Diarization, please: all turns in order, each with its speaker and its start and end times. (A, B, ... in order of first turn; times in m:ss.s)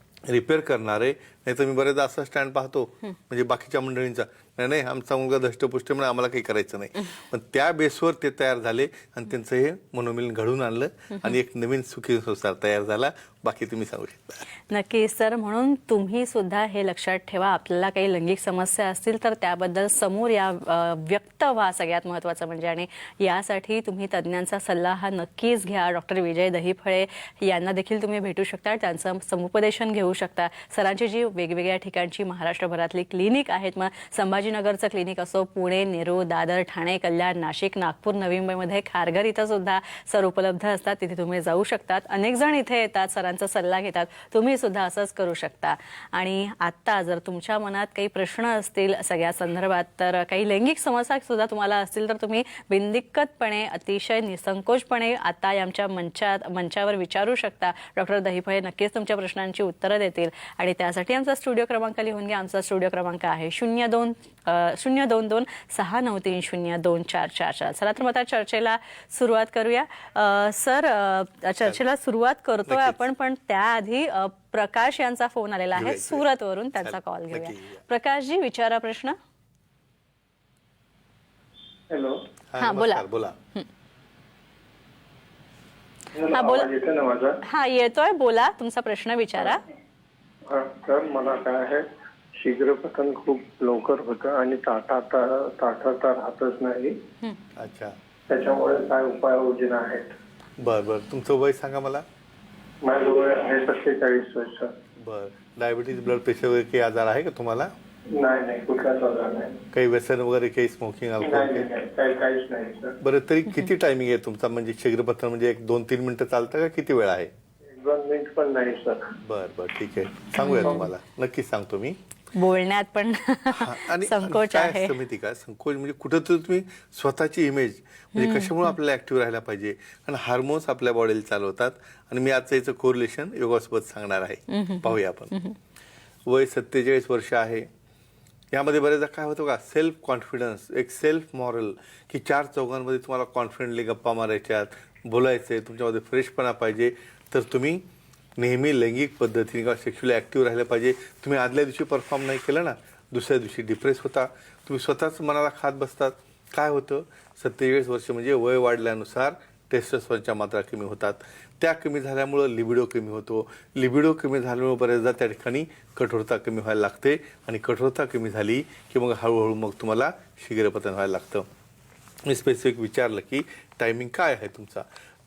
0:00.3-0:14.4 A
0:14.7-1:19.2 B
1:12.7-1:13.0 A
1:15.7-1:16.2 A
1:16.8-1:17.8 A
1:21.9-1:22.2 C
1:22.5-1:23.4 A
1:22.6-1:23.6 B
1:26.1-1:27.4 C
1:26.3-1:26.7 B
1:27.4-1:29.6 B
1:30.5-1:31.8 C
1:32.4-1:37.0 C
1:37.6-1:38.0 A
1:38.3-1:40.1 C
1:40.6-1:42.0 A
1:42.8-1:44.7 C
1:45.0-1:47.7 A
1:48.1-1:49.6 C
1:49.7-1:51.7 A
1:51.2-1:53.0 C
1:53.0-1:57.3 A
1:57.7-1:59.0 C
1:59.2-2:02.0 A
2:00.4-2:00.8 B
2:02.3-2:05.0 B
2:03.5-2:15.3 A
2:08.2-2:08.7 B
2:14.5-2:15.6 B
2:16.2-2:17.7 A
2:18.5-2:27.8 A
2:28.4-2:51.5 A
2:52.2-2:54.9 A